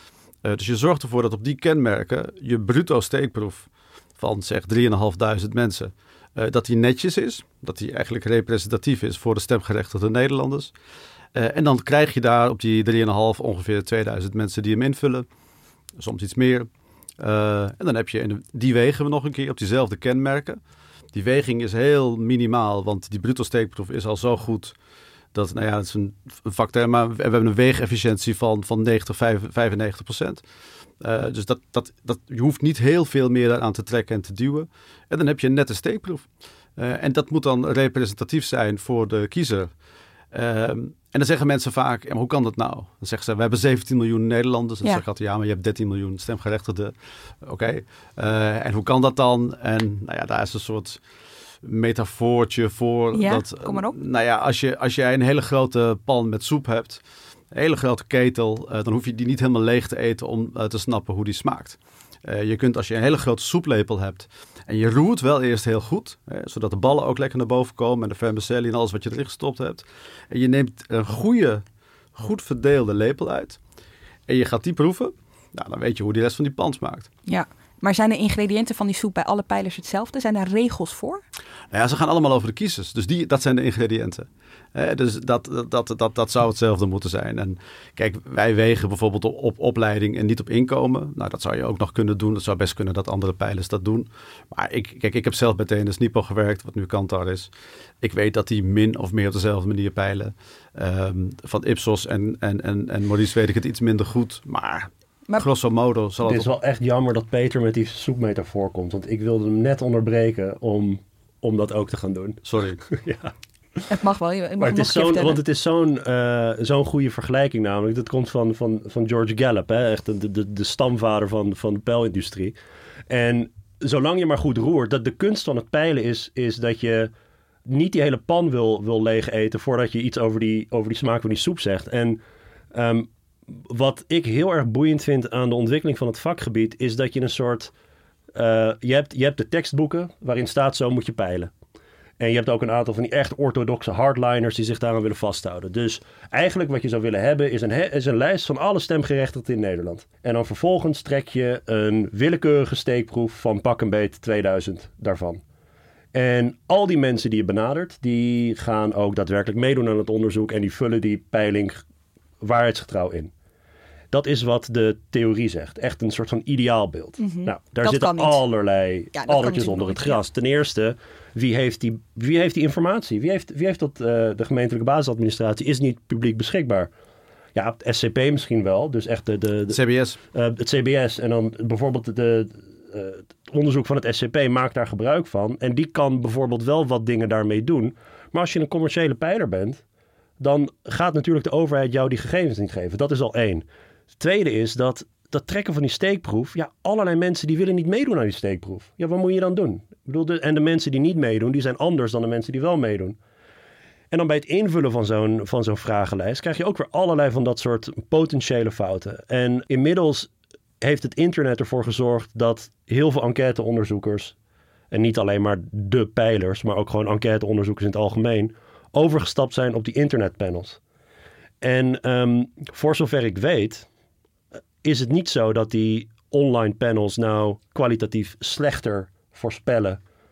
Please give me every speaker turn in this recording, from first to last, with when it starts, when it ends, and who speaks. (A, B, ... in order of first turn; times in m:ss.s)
0:00.4-0:10.7 A
0:11.4-0:15.3 A
0:16.0-0:20.6 A
0:21.1-0:24.8 A
0:25.3-0:30.4 A
0:31.0-0:39.7 A
0:40.3-0:51.0 A
0:51.6-1:11.6 A
0:53.1-0:54.0 B
1:12.2-1:13.6 A
1:14.3-1:17.1 A
1:17.3-1:21.2 B
1:21.7-1:46.5 A
1:46.2-1:53.3 C
1:52.4-1:52.8 A
1:53.9-1:55.4 B
1:54.6-2:02.6 C
2:03.1-2:07.1 C
2:07.7-2:12.2 C
2:12.7-2:17.7 C
2:18.4-2:21.5 C
2:22.2-2:35.4 C
2:36.1-2:41.8 C
2:42.4-2:43.3 C
2:44.1-2:56.9 C
2:47.2-2:48.4 B
2:49.2-2:50.2 B
2:57.6-2:59.8 C
2:59.7-3:00.2 A
3:00.3-3:09.8 C
3:10.4-3:13.6 C
3:14.2-3:23.2 C
3:24.1-3:30.3 C
3:30.8-3:34.4 C
3:34.9-3:40.8 C
3:41.6-3:43.9 C
3:44.8-3:50.0 C